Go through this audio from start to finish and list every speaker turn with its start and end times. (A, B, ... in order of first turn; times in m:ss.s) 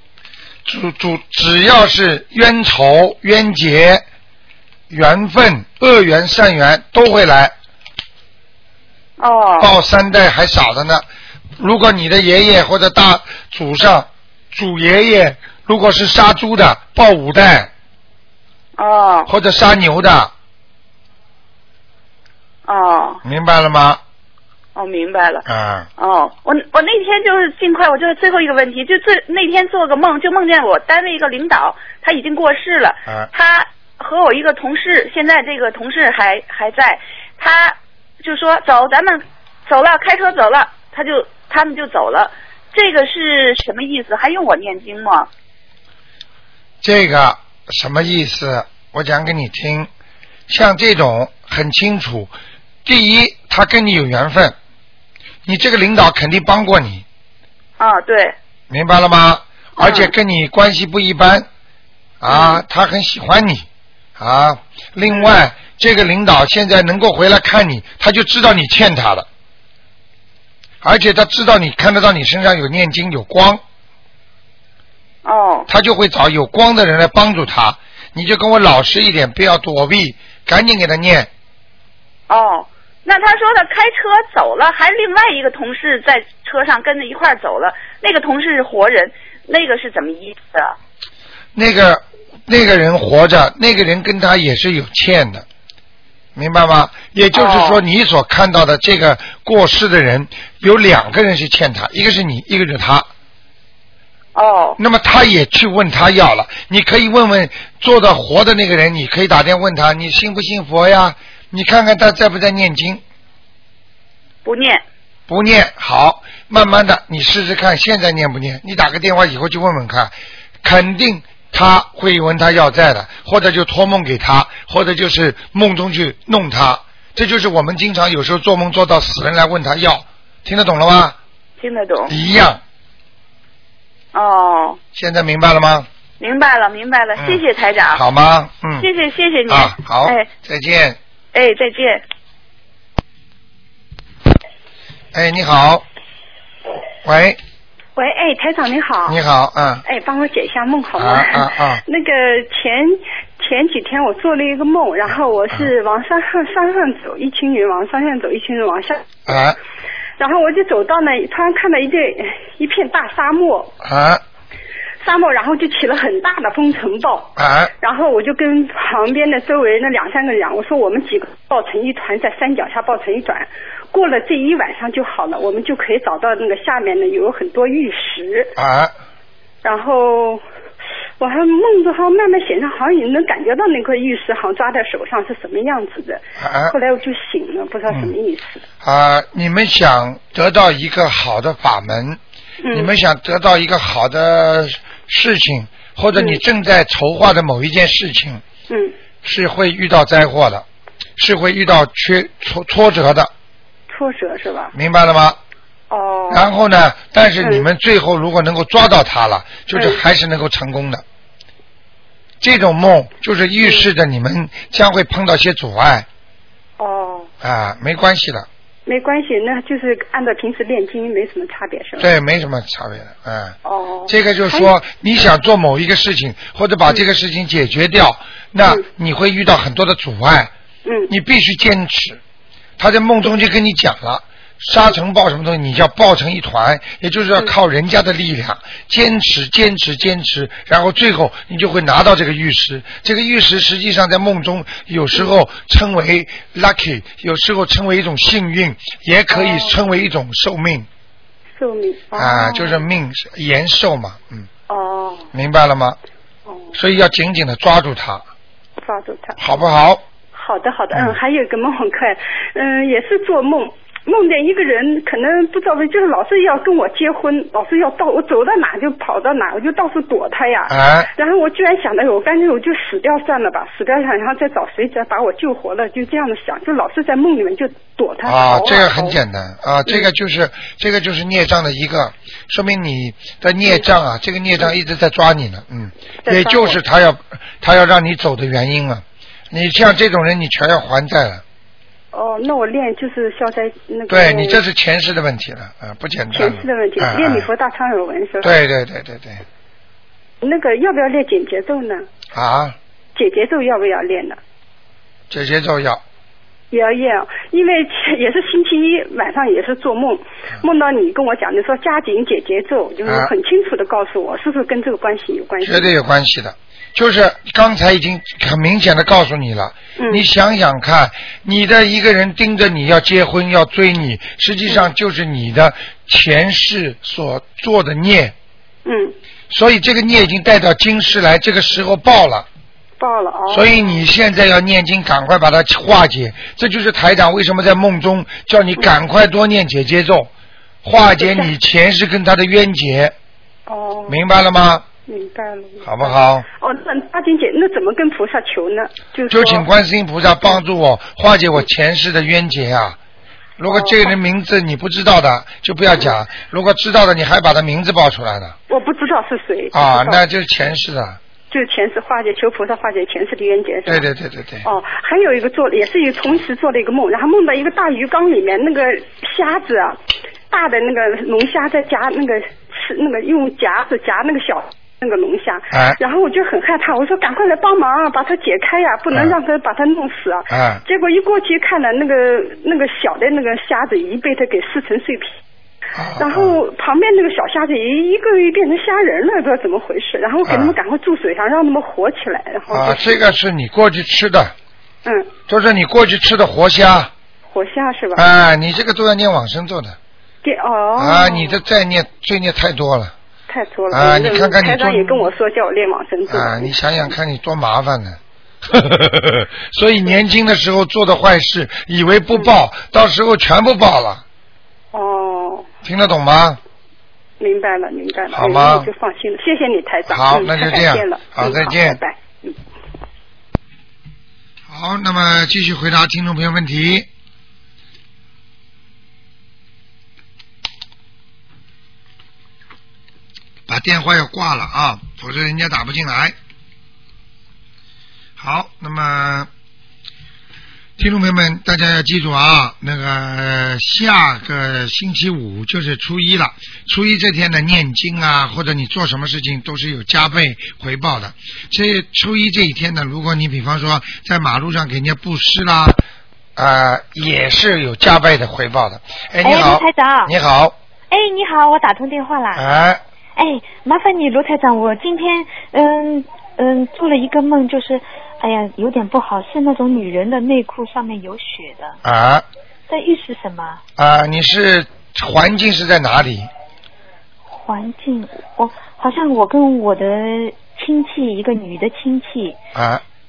0:00.6-0:04.0 A
0:04.9-0:07.5 A
0:09.2-0:09.7 B
0:09.6-0:11.0 A
0:11.6-0:17.7 A
0:18.8-0:19.3 B
0:19.3-0:20.3 A
0:22.7-0:23.2 B
0:23.2-0:24.0 A
0:24.7-0:25.4 B
0:25.4-0:25.9 A
0:26.0-0:45.3 B
0:46.8-0:49.9 A
0:50.5-0:52.3 A
0:52.8-0:54.6 A
0:55.4-0:57.0 A
0:57.8-0:58.4 B
0:58.7-1:01.5 A
0:59.8-1:00.1 B
1:02.2-1:03.6 A
1:02.3-1:02.6 B
1:04.2-1:09.2 A
1:10.8-1:13.6 A
1:15.2-1:15.7 B
1:15.7-1:21.3 A
1:22.3-1:30.7 B
1:31.5-1:35.4 A
1:36.3-1:43.1 A
1:37.3-1:37.8 B
1:44.3-1:44.8 B
1:44.8-1:53.0 A
1:54.4-1:54.8 B
1:55.3-2:11.2 A
2:11.6-2:12.1 B
2:12.1-2:12.6 A
2:14.1-2:14.8 B
2:14.9-2:15.9 A
2:16.2-2:18.0 B
2:17.2-2:18.9 A
2:18.8-2:20.3 B
2:19.5-2:21.0 A
2:21.3-2:22.0 B
2:25.1-2:25.8 A
2:27.0-2:27.4 A
2:28.0-2:29.2 C
2:29.0-2:29.8 A
2:29.8-2:39.3 C
2:31.0-2:31.8 A
2:39.3-2:39.6 A
2:40.2-2:43.7 C
2:43.8-2:44.2 A
2:45.0-2:58.5 C
2:47.4-2:47.7 A
2:58.6-2:58.9 A
2:59.6-3:00.4 C
3:01.2-3:08.6 C
3:06.4-3:06.7 A
3:08.8-3:12.2 A
3:12.6-3:12.9 C
3:12.7-3:18.4 A
3:16.1-3:16.4 C
3:18.7-3:18.9 C
3:19.2-3:20.6 A
3:21.2-3:23.3 A
3:23.9-3:24.7 C
3:24.7-3:25.4 A
3:25.9-3:26.5 C
3:26.3-3:31.0 A
3:27.4-3:27.7 C
3:29.7-3:30.0 C
3:32.4-3:36.1 A
3:33.6-3:33.9 C
3:36.8-3:37.3 C
3:37.4-3:38.5 A
3:38.8-3:42.1 C
3:42.0-3:43.6 A
3:43.6-3:44.7 C
3:44.1-3:50.5 A
3:50.8-3:51.1 C
3:51.1-3:52.2 A
3:52.8-4:10.9 A
4:09.3-4:09.8 C
4:11.5-4:12.9 C
4:12.2-4:14.5 A
4:14.7-4:15.3 C
4:15.3-4:16.0 A
4:16.4-4:16.8 C
4:16.7-4:18.2 A
4:18.8-4:19.4 C
4:19.4-4:20.0 A
4:20.3-4:39.2 C
4:20.9-4:21.2 A
4:30.7-4:31.1 A
4:38.2-4:51.4 A
4:46.2-4:46.8 C
4:52.1-4:54.6 C
4:54.1-4:57.5 A
4:56.3-4:58.5 C
4:58.4-4:59.4 A
5:00.4-5:02.0 C
5:02.3-5:02.8 A
5:03.1-5:04.4 C
5:05.3-5:06.0 A
5:06.7-5:15.9 C
5:13.0-5:13.3 A
5:15.6-5:28.3 A
5:20.0-5:20.2 C
5:28.8-5:29.1 C
5:29.5-5:32.5 A
5:33.0-5:34.0 C
5:33.5-5:40.3 A
5:40.8-5:43.1 A
5:41.0-5:41.5 C
5:43.7-5:44.2 C
5:44.1-5:44.9 A
5:45.0-5:49.7 C
5:45.8-5:46.4 A
5:49.3-5:53.0 A
5:53.6-5:58.6 A
5:53.7-5:54.1 C
5:58.7-6:00.2 C
5:59.7-6:01.2 A
6:01.5-6:04.1 C
6:03.8-6:04.6 A
6:04.6-6:10.0 C
6:10.5-6:25.4 C
6:15.7-6:16.0 A
6:20.5-6:20.8 A
6:26.0-6:26.6 A
6:26.2-6:33.2 C
6:30.4-6:30.8 A
6:32.7-6:34.5 A
6:35.0-6:35.3 C
6:35.5-6:37.1 A
6:37.5-6:38.2 C
6:38.1-6:40.0 A
6:40.4-6:41.6 C
6:41.0-6:43.1 A
6:43.5-6:46.7 C
6:43.9-6:45.3 A
6:46.3-6:54.2 A
6:54.9-6:55.7 C
6:55.8-6:56.6 A
6:57.4-7:02.6 C
6:58.3-6:58.9 A
7:00.1-7:02.0 A
7:04.7-7:07.1 A
7:13.7-7:16.4 A
7:18.4-7:19.5 A
7:21.0-7:36.0 A
7:36.6-7:40.7 A
7:39.4-7:40.3 D
7:41.1-7:42.6 D
7:42.5-7:43.0 A
7:43.4-7:52.0 D
7:52.0-7:52.4 A
7:52.9-7:53.8 D
7:54.0-7:56.5 A
7:57.5-8:02.6 D
8:02.7-8:03.0 A